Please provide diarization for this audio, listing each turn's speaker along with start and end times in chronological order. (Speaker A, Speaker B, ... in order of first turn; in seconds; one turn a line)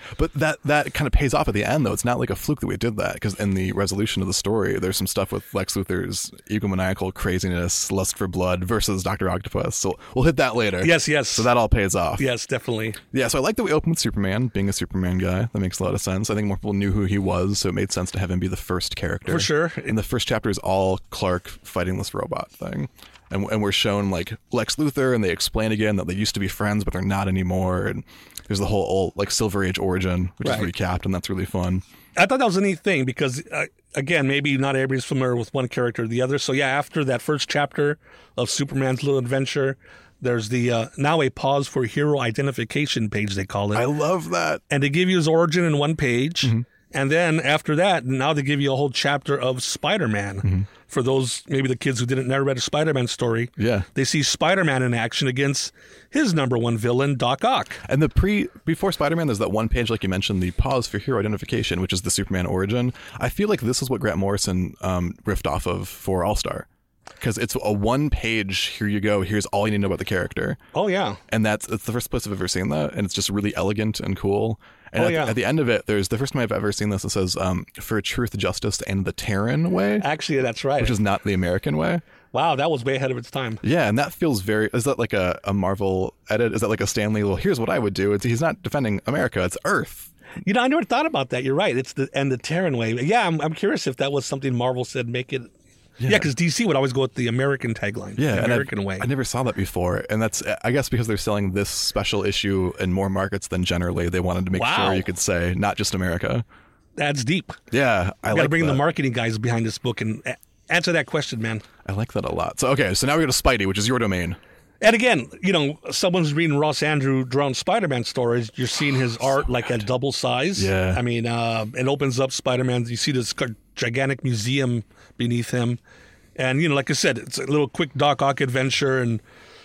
Speaker A: 0.1-12.2
Speaker B: 10.8-11.5
Speaker B: 12.2-13.0
Speaker A: 13.1-31.8
Speaker B: 19.3-19.9
Speaker B: 30.4-30.7
Speaker B: 32.1-43.9
Speaker A: 43.7-44.6
Speaker B: 44.7-57.8
Speaker A: 53.6-53.9
Speaker A: 57.8-66.7
Speaker A: 67.2-70.6
Speaker B: 70.7-71.2
Speaker A: 71.3-80.0
Speaker B: 75.0-75.4
Speaker B: 80.0-81.0
Speaker A: 80.8-82.0
Speaker B: 82.3-83.6
Speaker A: 83.6-90.1
Speaker B: 90.4-95.5
Speaker A: 96.0-96.3
Speaker B: 96.0-99.1
Speaker A: 98.2-106.4
Speaker B: 104.5-105.0
Speaker B: 107.0-107.6
Speaker A: 107.7-108.8
Speaker B: 108.3-111.6
Speaker A: 111.8-114.4
Speaker B: 114.8-125.8
Speaker A: 120.5-121.0
Speaker B: 126.3-129.2